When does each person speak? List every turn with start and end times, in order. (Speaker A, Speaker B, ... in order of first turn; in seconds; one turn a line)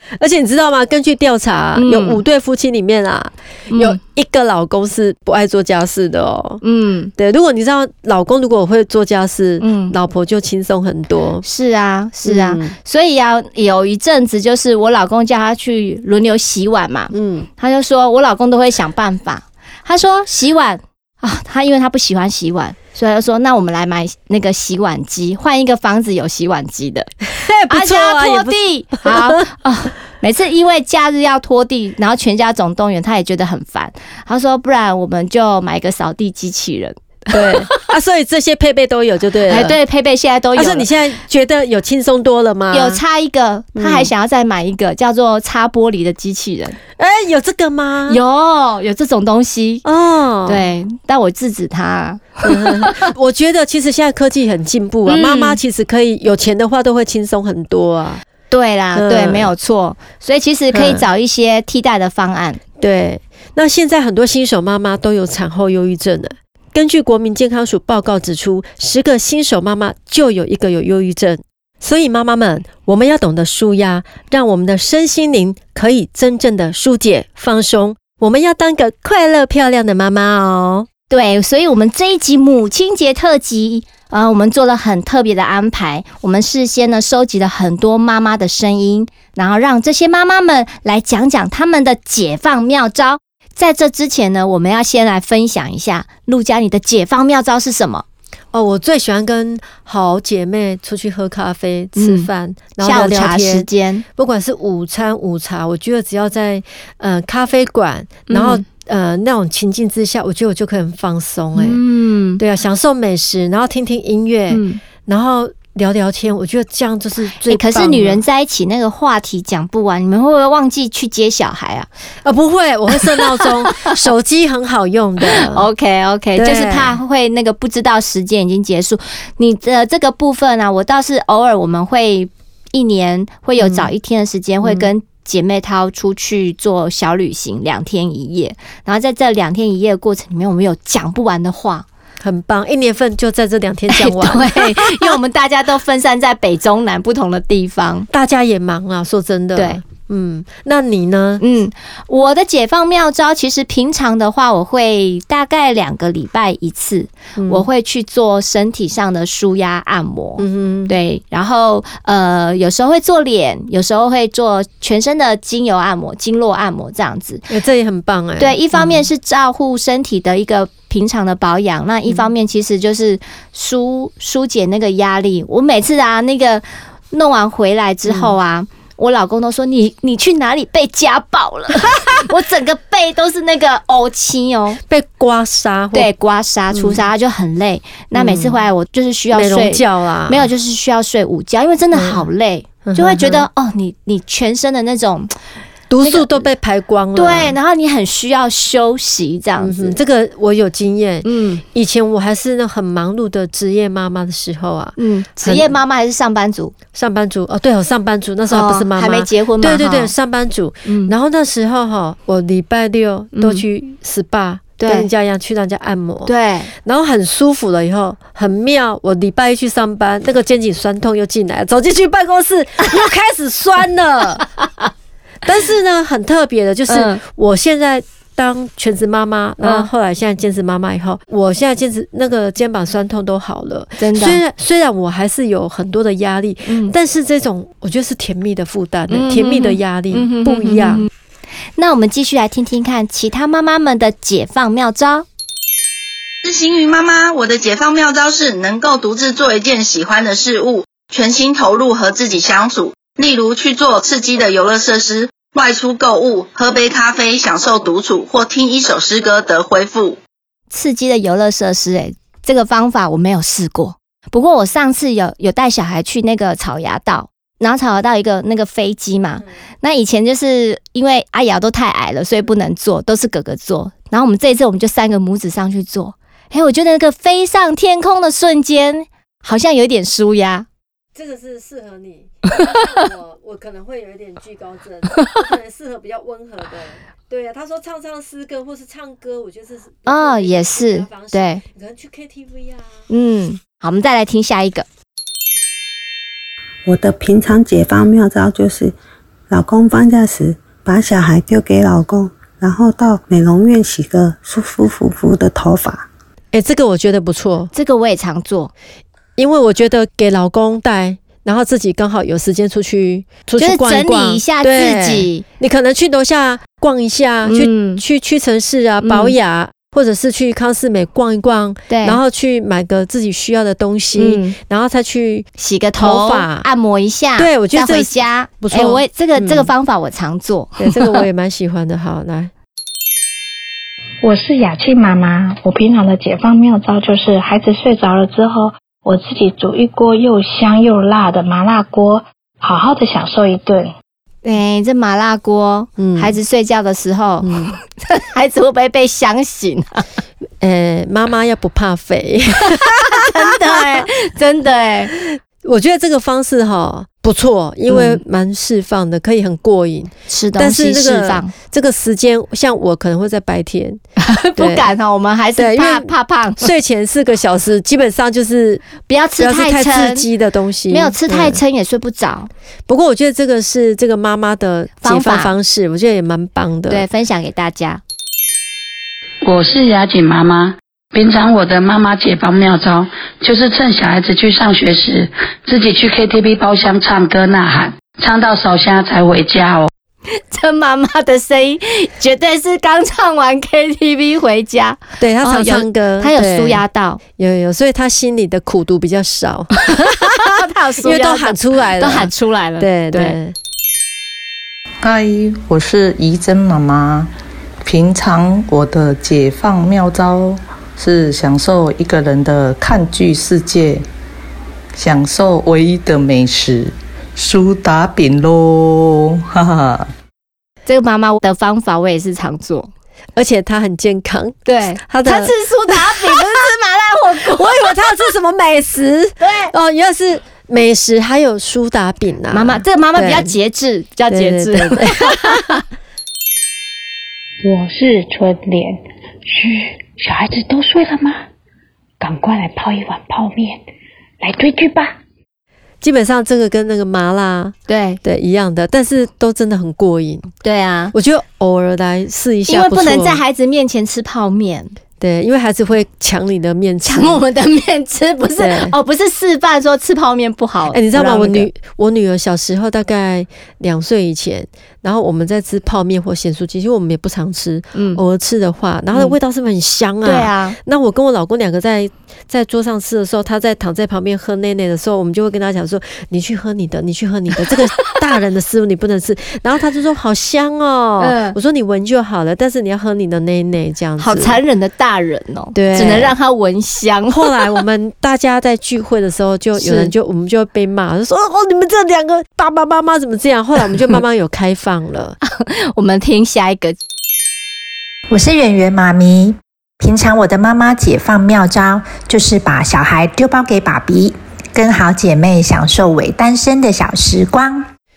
Speaker A: 0.2-6.6
Speaker B: 1.8-2.2
Speaker B: 3.7-4.0
Speaker B: 6.6-7.1
Speaker A: 7.2-11.4
Speaker B: 9.6-9.9
Speaker B: 11.4-27.1
Speaker A: 12.2-12.7
Speaker A: 17.1-17.5
Speaker A: 27.3-29.3
Speaker B: 27.7-37.7
Speaker A: 37.3-39.8
Speaker B: 39.5-40.9
Speaker A: 40.5-43.0
Speaker B: 42.7-46.8
Speaker A: 43.8-44.1
Speaker A: 47.0-48.2
Speaker B: 48.1-49.8
Speaker A: 49.8-50.6
Speaker B: 50.5-53.0
Speaker A: 52.4-58.2
Speaker B: 55.1-55.6
Speaker B: 58.5-62.6
Speaker A: 58.9-59.5
Speaker A: 60.7-61.0
Speaker A: 62.8-80.9
Speaker B: 81.1-98.0
Speaker A: 98.5-111.8
Speaker B: 102.0-104.0
Speaker B: 108.3-108.6
Speaker B: 111.5-112.4
Speaker A: 112.4-118.2
Speaker B: 114.5-114.8
Speaker B: 117.4-121.9
Speaker A: 122.2-125.7
Speaker B: 123.0-123.9
Speaker B: 125.2-141.8
Speaker A: 126.3-127.0
Speaker A: 133.6-133.9
Speaker A: 134.6-134.9
Speaker A: 142.2-145.2
Speaker B: 143.9-148.1
Speaker A: 148.1-151.4
Speaker B: 151.4-167.4
Speaker A: 157.4-157.6
Speaker A: 160.4-160.9
Speaker A: 167.5-169.0
Speaker B: 168.4-184.8
Speaker A: 178.1-178.3
Speaker A: 184.9-186.1
Speaker B: 185.9-195.3
Speaker A: 186.7-187.0
Speaker A: 188.1-188.6
Speaker A: 189.3-190.5
Speaker A: 191.9-192.2
Speaker A: 192.8-193.5
Speaker A: 195.9-197.6
Speaker B: 196.0-196.5
Speaker B: 197.1-200.0
Speaker A: 199.6-205.7
Speaker B: 201.2-201.6
Speaker B: 205.0-206.7
Speaker A: 206.9-216.3
Speaker B: 208.5-210.1
Speaker B: 210.8-211.1
Speaker B: 213.3-213.6
Speaker B: 214.8-215.1
Speaker B: 216.2-216.7
Speaker A: 216.8-224.6
Speaker A: 225.4-241.1
Speaker B: 226.9-227.2
Speaker B: 229.6-229.9
Speaker B: 234.0-234.4
Speaker B: 236.7-236.9
Speaker B: 239.1-241.1
Speaker B: 241.8-245.2
Speaker C: 246.4-260.2
Speaker B: 260.7-280.7
Speaker A: 281.1-293.1
Speaker B: 290.1-291.6
Speaker B: 293.1-294.9
Speaker D: 296.8-298.9
Speaker D: 299.5-306.1
Speaker A: 306.5-307.7
Speaker B: 307.7-308.7
Speaker A: 309.4-325.5
Speaker B: 313.6-315.4
Speaker B: 317.4-318.0
Speaker B: 319.0-319.3
Speaker B: 321.9-322.2
Speaker B: 324.2-324.6
Speaker B: 325.6-331.2
Speaker A: 326.0-326.6
Speaker A: 327.4-329.7
Speaker A: 330.8-332.5
Speaker E: 334.2-343.9
Speaker B: 344.4-350.1
Speaker A: 346.0-346.3
Speaker A: 347.4-347.7
Speaker A: 350.6-354.1
Speaker B: 353.1-355.1
Speaker A: 355.2-364.0
Speaker B: 357.9-358.2
Speaker B: 360.3-361.5
Speaker B: 364.2-366.7
Speaker A: 364.6-364.9
Speaker A: 365.6-366.1
Speaker A: 366.6-368.9
Speaker B: 369.1-370.2
Speaker A: 369.4-371.6
Speaker B: 370.9-372.5
Speaker A: 372.9-377.0
Speaker B: 375.0-375.5
Speaker B: 376.9-378.0
Speaker F: 379.4-389.9
Speaker B: 390.3-397.2
Speaker A: 395.2-396.8
Speaker A: 397.4-403.5
Speaker B: 400.4-403.4
Speaker G: 405.0-407.3
Speaker G: 407.8-414.0
Speaker G: 414.9-420.1
Speaker B: 420.9-422.9
Speaker A: 423.4-426.4
Speaker B: 424.6-428.3
Speaker A: 427.4-433.5
Speaker B: 429.4-429.7
Speaker B: 432.5-435.8
Speaker A: 434.3-435.8
Speaker E: 437.6-439.0
Speaker E: 439.5-441.3
Speaker E: 442.2-443.8
Speaker E: 444.4-445.1
Speaker A: 446.0-450.5
Speaker B: 447.9-448.2
Speaker B: 450.6-451.1
Speaker A: 451.1-453.4
Speaker B: 452.7-454.9
Speaker A: 455.2-457.4
Speaker B: 457.0-461.7
Speaker A: 458.6-458.9
Speaker A: 460.9-484.6
Speaker B: 467.9-468.2
Speaker B: 470.2-470.8
Speaker B: 481.2-481.6
Speaker B: 484.2-487.5
Speaker A: 485.7-486.3
Speaker A: 487.3-495.4
Speaker B: 489.8-490.1
Speaker B: 495.4-497.0
Speaker H: 498.3-507.9